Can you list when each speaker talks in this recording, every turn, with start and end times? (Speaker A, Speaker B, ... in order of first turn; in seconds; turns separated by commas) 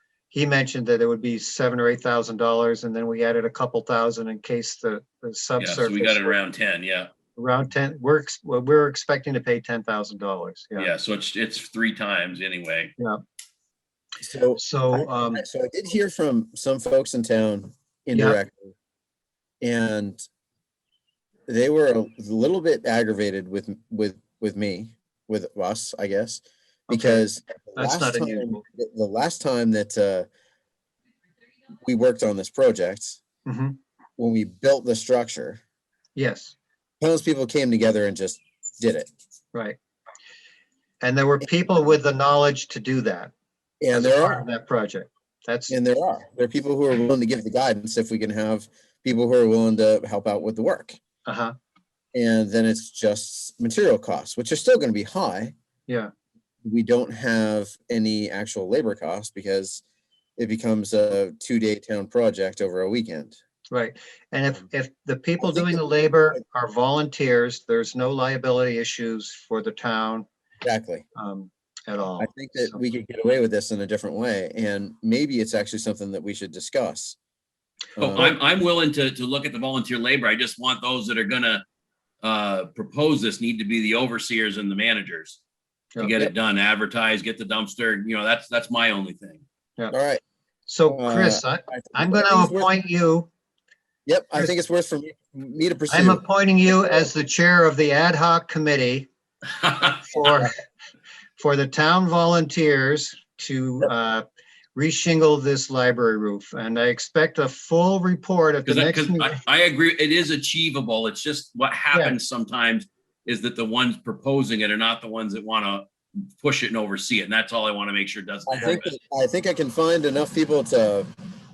Speaker A: 0.3-6.4, Speaker B: 5.6-7.1, Speaker A: 7.4-10.9, Speaker B: 10.8-12.9, Speaker C: 14.2-18.7, Speaker A: 14.6-15.4, Speaker A: 18.1-18.4, Speaker C: 19.6-20.2, Speaker C: 21.5-30.3, Speaker A: 26.9-28.6, Speaker C: 31.8-33.2, Speaker A: 33.5-33.8, Speaker C: 34.2-35.6, Speaker A: 36.2-36.5, Speaker C: 37.0-39.1, Speaker A: 41.0-43.3, Speaker C: 43.8-44.5, Speaker A: 43.9-45.8, Speaker C: 45.7-51.0, Speaker A: 51.3-51.5, Speaker C: 52.1-55.5, Speaker C: 56.6-59.8, Speaker C: 60.4-63.4, Speaker A: 63.7-70.3, Speaker C: 65.4-66.4, Speaker C: 70.6-71.1, Speaker A: 71.2-72.8, Speaker C: 72.2-77.2, Speaker C: 78.0-78.3, Speaker B: 78.0-81.6, Speaker B: 82.2-85.4, Speaker B: 86.0-89.4, Speaker C: 89.9-90.2, Speaker A: 90.7-93.3, Speaker C: 90.9-92.8, Speaker C: 94.1-97.1, Speaker A: 95.9-99.1, Speaker B: 99.6-100.2, Speaker A: 99.8-100.6, Speaker A: 101.4-109.4, Speaker B: 108.7-115.9, Speaker B: 116.4-118.9, Speaker C: 118.5-121.1